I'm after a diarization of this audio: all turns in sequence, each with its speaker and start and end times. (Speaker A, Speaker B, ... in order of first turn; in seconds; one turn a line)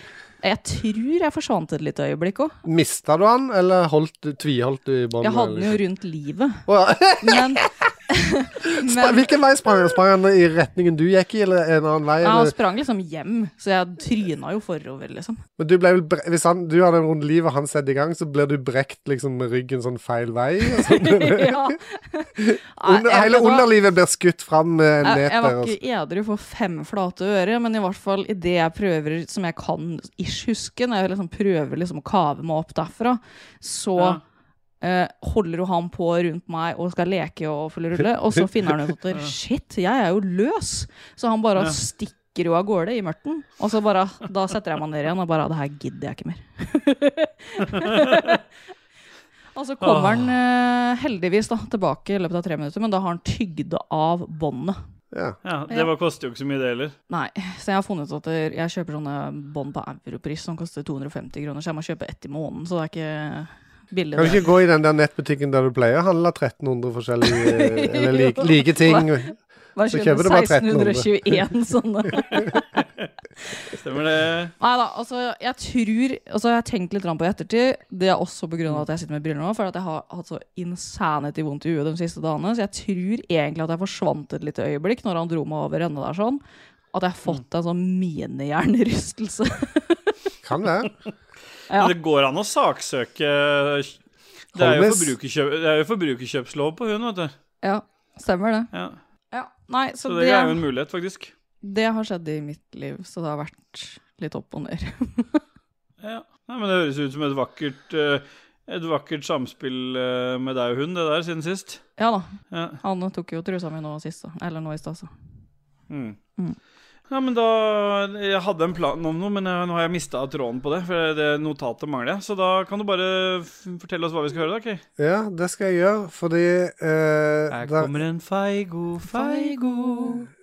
Speaker A: 0.4-2.5
Speaker B: 2.6-5.8
Speaker A: 5.2-6.7
Speaker B: 6.7-7.7
Speaker A: 7.2-9.3
Speaker B: 8.7-12.5
Speaker A: 12.2-15.4
Speaker B: 15.6-21.8
Speaker A: 20.7-23.7
Speaker B: 22.4-25.8
Speaker A: 25.0-34.2
Speaker A: 34.8-48.4
Speaker C: 47.6-48.4
Speaker A: 49.5-54.8
Speaker C: 49.8-50.3
Speaker B: 55.1-55.4
Speaker C: 55.4-56.9
Speaker A: 57.1-64.5
Speaker B: 64.1-71.4
Speaker A: 67.3-69.1
Speaker A: 69.8-72.6
Speaker C: 73.7-74.5
Speaker A: 74.6-86.4
Speaker A: 86.9-90.0
Speaker B: 90.4-90.9
Speaker A: 91.7-91.9
Speaker C: 91.7-94.0
Speaker C: 94.5-97.3
Speaker B: 94.5-95.1
Speaker A: 97.6-98.7
Speaker C: 98.7-99.0
Speaker A: 99.3-100.6
Speaker C: 100.1-101.3
Speaker A: 101.6-105.4
Speaker C: 106.0-111.8
Speaker A: 112.0-115.1
Speaker C: 112.5-112.8
Speaker C: 115.9-116.2
Speaker C: 117.1-124.8
Speaker B: 125.0-127.9
Speaker C: 127.5-130.2
Speaker A: 129.1-130.2